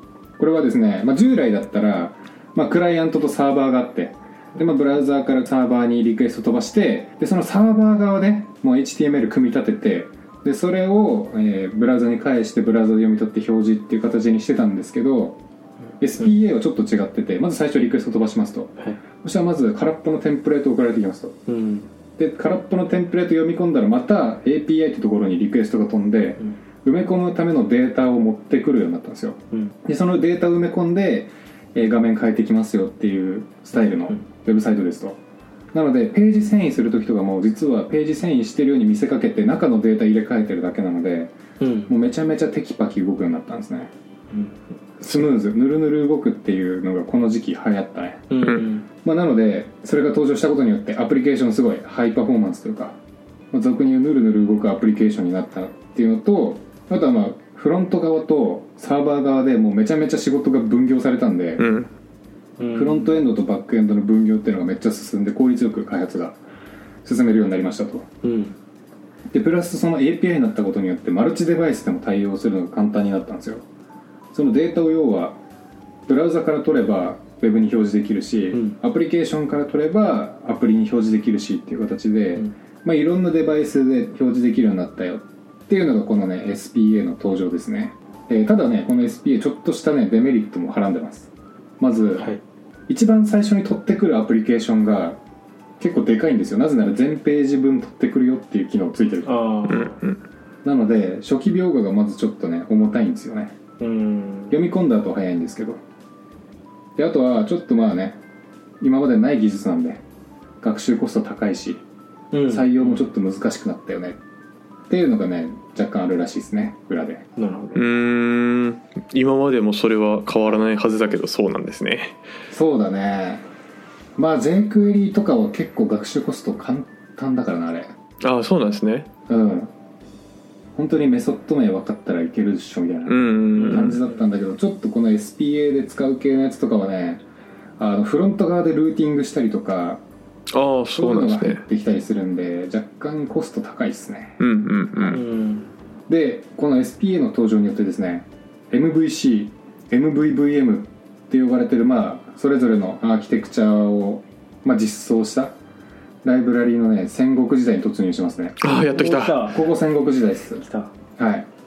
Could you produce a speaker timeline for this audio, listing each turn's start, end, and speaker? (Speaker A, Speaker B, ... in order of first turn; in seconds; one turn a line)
Speaker A: 0.4-15.4
Speaker A: 16.0-21.4
Speaker B: 21.5-21.9
Speaker A: 22.2-35.2
Speaker A: 35.7-41.3
Speaker B: 41.6-41.9
Speaker A: 41.9-43.9
Speaker A: 45.0-48.3
Speaker B: 48.3-48.9
Speaker C: 48.4-48.6
Speaker A: 49.0-53.0
Speaker A: 53.5-61.7
Speaker C: 61.6-61.9
Speaker B: 62.6-63.3
Speaker A: 62.7-66.4
Speaker A: 67.0-68.1
Speaker B: 68.2-68.5
Speaker A: 69.3-73.6
Speaker A: 74.3-75.4
Speaker A: 76.1-92.3
Speaker A: 92.9-95.2
Speaker A: 95.8-99.4
Speaker B: 99.2-100.0
Speaker C: 99.7-100.2
Speaker A: 100.6-103.5
Speaker B: 103.8-104.5
Speaker A: 104.5-105.8
Speaker A: 107.0-108.2
Speaker A: 108.8-110.0
Speaker A: 110.6-111.8
Speaker B: 112.3-113.1
Speaker A: 112.5-114.2
Speaker A: 114.9-117.3
Speaker B: 117.4-117.8
Speaker C: 117.7-122.2
Speaker A: 122.5-123.4
Speaker A: 124.2-127.9
Speaker C: 128.2-129.1
Speaker A: 129.3-129.7
Speaker A: 130.8-137.2
Speaker C: 133.1-134.0
Speaker B: 133.6-134.0
Speaker A: 137.8-140.0
Speaker C: 140.5-141.6
Speaker A: 140.9-144.4
Speaker C: 144.4-145.2
Speaker B: 145.1-145.7
Speaker A: 146.1-155.6
Speaker A: 156.2-158.7
Speaker C: 158.6-159.4
Speaker B: 158.6-159.8
Speaker A: 159.5-160.6
Speaker B: 160.6-160.9
Speaker A: 161.2-161.5